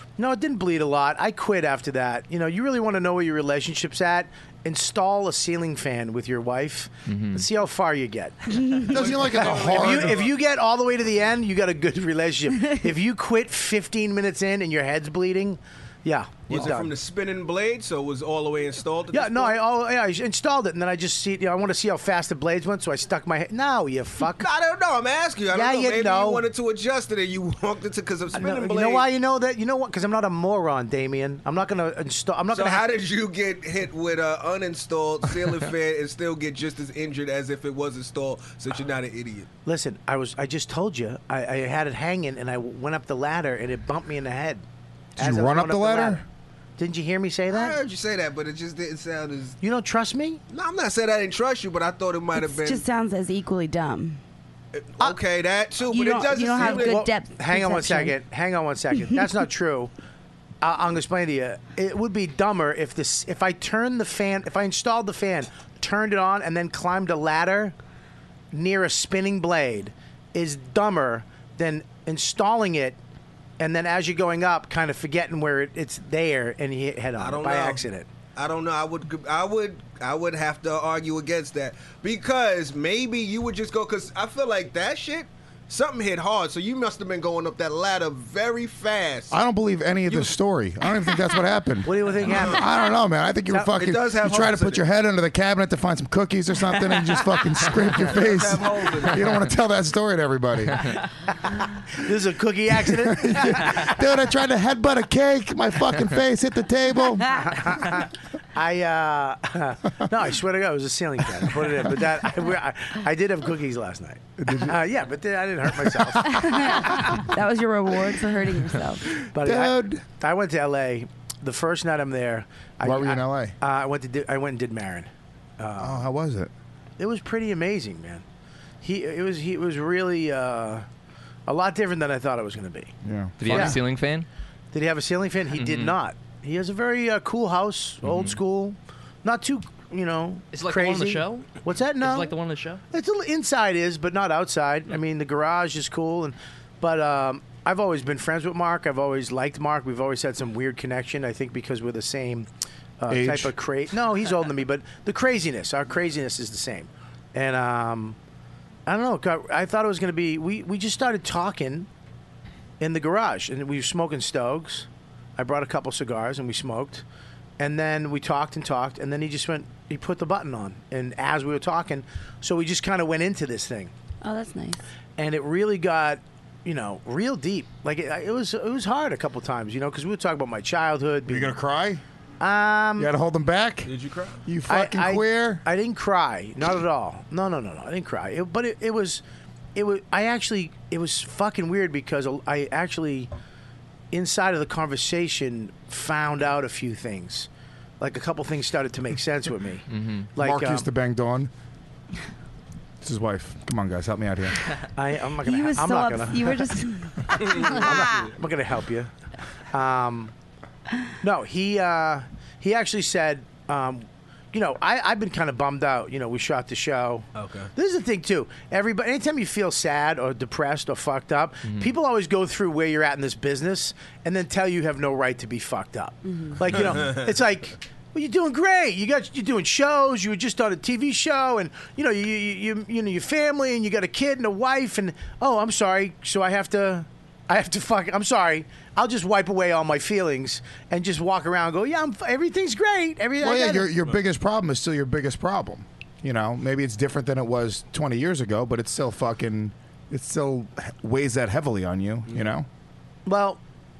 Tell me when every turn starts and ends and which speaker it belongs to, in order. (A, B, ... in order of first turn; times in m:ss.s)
0:00.2-0:08.6 A
0:07.1-0:07.5 B
0:08.6-0:09.0 C
0:08.9-0:10.2 D
0:08.9-0:10.4 E
0:09.4-0:16.9 A
0:16.5-0:19.6 E
0:19.1-0:24.5 A
0:24.3-0:29.1 E
0:25.5-0:26.4 A
0:28.3-0:32.9 A
0:32.5-0:39.5 E
0:39.7-0:44.6 A
0:45.2-0:46.2 D
0:45.2-0:46.2 A
0:46.8-0:47.8 A
0:47.5-0:49.6 E
0:49.6-0:50.4 A
0:50.5-0:52.8 E
0:52.4-0:54.2 C
0:54.8-0:57.1 E
0:55.9-0:58.2 C
0:56.6-0:59.9 A
1:00.6-1:07.8 A
1:08.5-1:13.0 A
1:13.6-1:18.1 A
1:17.2-1:29.4 E
1:29.3-1:40.9 D
1:31.8-1:32.6 A
1:32.2-1:32.6 E
1:33.7-1:34.8 E
1:38.0-1:39.5 E
1:41.9-1:43.9 A
1:42.8-1:47.6 D
1:47.4-1:57.0 A
1:54.4-1:54.8 D
1:56.2-1:59.2 C
1:59.3-2:00.0 D
1:59.3-2:06.0 A
2:02.8-2:03.6 D
2:05.8-2:06.5 D
2:07.0-2:08.2 A
2:08.8-2:10.9 A
2:11.5-2:12.9 A
2:13.0-2:13.7 D
2:13.4-2:14.3 B
2:13.4-2:13.8 A
2:14.7-2:22.4 A
2:15.5-2:16.0 B
2:18.0-2:18.3 B
2:20.5-2:22.8 F
2:22.9-2:32.5 A
2:33.0-2:38.2 A
2:33.1-2:33.5 D
2:38.9-2:41.9 A
2:42.8-2:47.0 A
2:47.6-2:53.9 A
2:54.2-2:54.8 C
2:55.2-3:01.5 A
3:01.3-3:02.0 D
3:02.4-3:03.1 A
3:03.0-3:03.9 D
3:03.8-3:04.4 E
3:04.4-3:05.6 D
3:04.7-3:09.2 A
3:09.8-3:13.3 A
3:14.1-3:17.5 A
3:18.0-3:20.9 A
3:19.9-3:20.3 B
3:20.4-3:21.5 D
3:23.0-3:24.6 D
3:25.0-3:26.6 A
3:25.4-3:28.3 C
3:27.4-3:28.2 E
3:27.6-3:29.1 A
3:29.7-3:30.3 A
3:31.2-4:04.0 A
3:37.4-3:37.7 E
3:41.7-3:41.9 B
3:46.3-3:46.6 C
3:47.0-3:47.2 E
4:03.4-4:12.7 D
4:13.2-4:13.6 A